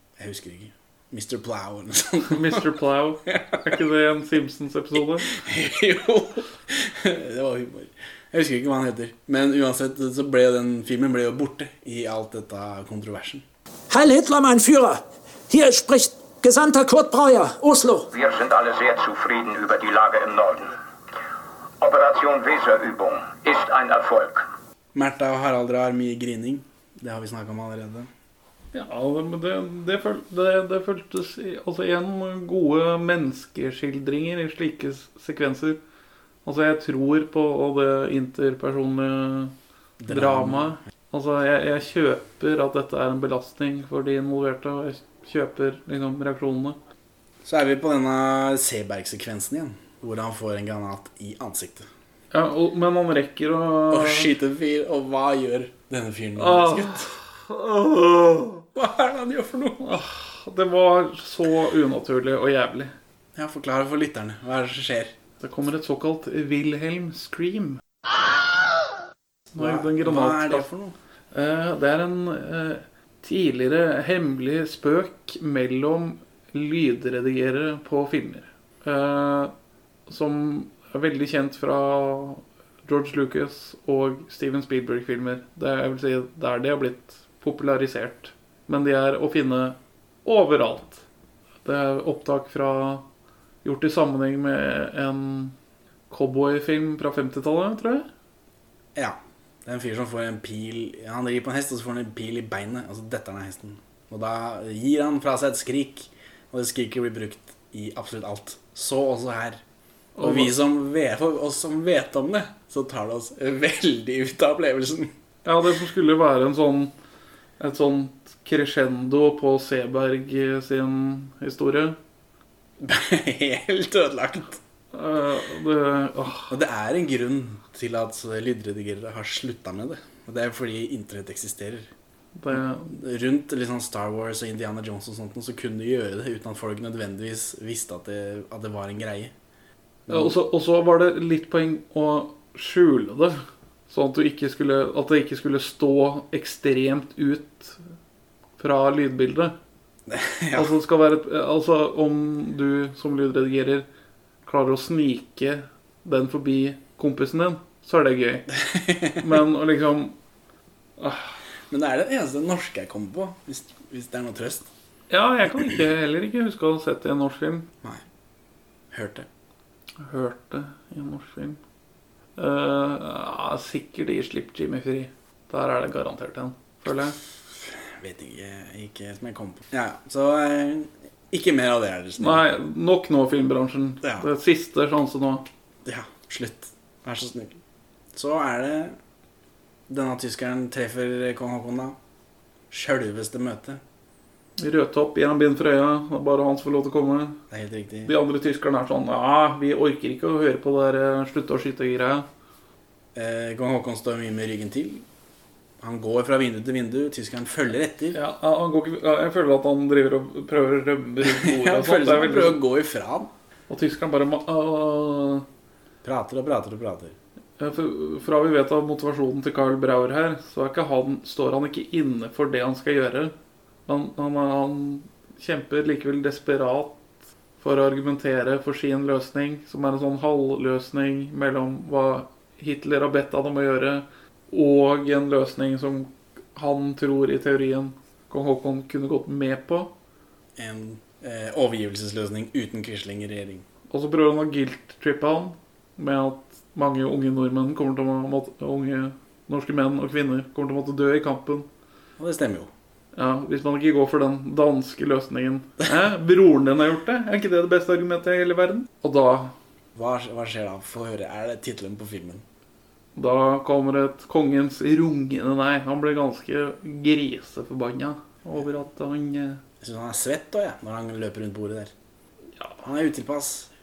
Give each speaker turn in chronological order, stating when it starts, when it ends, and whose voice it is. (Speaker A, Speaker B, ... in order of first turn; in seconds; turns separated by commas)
Speaker A: 0.2-2.6, Speaker B: 2.3-5.3, Speaker A: 3.3-3.6, Speaker A: 5.3-13.4, Speaker C: 13.9-18.1, Speaker D: 18.1-20.7, Speaker D: 21.8-24.5, Speaker A: 24.9-28.1, Speaker B: 28.7-35.8, Speaker B: 36.4-39.5, Speaker A: 40.0-40.8, Speaker B: 40.1-46.8, Speaker A: 47.4-51.9, Speaker B: 52.3-54.3, Speaker A: 53.9-57.1, Speaker B: 56.4-58.6, Speaker A: 58.7-59.9, Speaker B: 59.8-62.9, Speaker A: 63.4-65.1, Speaker B: 65.4-67.8, Speaker B: 69.5-70.7, Speaker A: 69.6-70.9, Speaker B: 71.3-79.5, Speaker B: 80.1-91.0, Speaker B: 91.6-93.0, Speaker B: 93.6-95.5, Speaker B: 96.1-98.1, Speaker A: 99.0-109.6, Speaker B: 110.2-110.5, Speaker A: 110.2-115.1, Speaker B: 115.4-116.9, Speaker B: 117.6-122.0, Speaker A: 122.8-124.6, Speaker B: 124.9-126.5, Speaker A: 126.5-131.9, Speaker B: 132.4-132.9, Speaker A: 132.9-139.3, Speaker A: 140.1-140.3, Speaker B: 140.1-147.8, Speaker B: 148.6-149.5, Speaker A: 150.1-150.7, Speaker B: 150.5-153.8, Speaker B: 154.4-158.5, Speaker A: 158.7-159.2, Speaker B: 159.2-160.1, Speaker B: 161.0-161.3, Speaker A: 161.7-164.7, Speaker B: 165.1-167.7, Speaker A: 168.9-169.3, Speaker B: 170.0-171.6, Speaker B: 172.4-177.2, Speaker A: 178.0-182.5, Speaker B: 182.2-185.4, Speaker A: 185.8-187.6, Speaker A: 188.1-189.0, Speaker A: 189.9-191.9, Speaker A: 192.7-193.8, Speaker B: 194.6-197.4, Speaker A: 197.5-198.1, Speaker B: 198.1-202.3, Speaker A: 203.1-205.0, Speaker A: 205.8-208.2, Speaker B: 208.1-212.6, Speaker A: 211.2-213.3, Speaker B: 213.7-215.4, Speaker A: 216.0-217.1, Speaker B: 217.6-223.3, Speaker B: 223.9-226.9, Speaker B: 227.6-239.9, Speaker A: 240.6-243.6, Speaker B: 243.9-251.7, Speaker A: 252.2-252.7, Speaker B: 253.1-259.5, Speaker A: 259.9-262.4, Speaker B: 263.1-269.6, Speaker A: 269.8-271.9, Speaker A: 272.8-273.7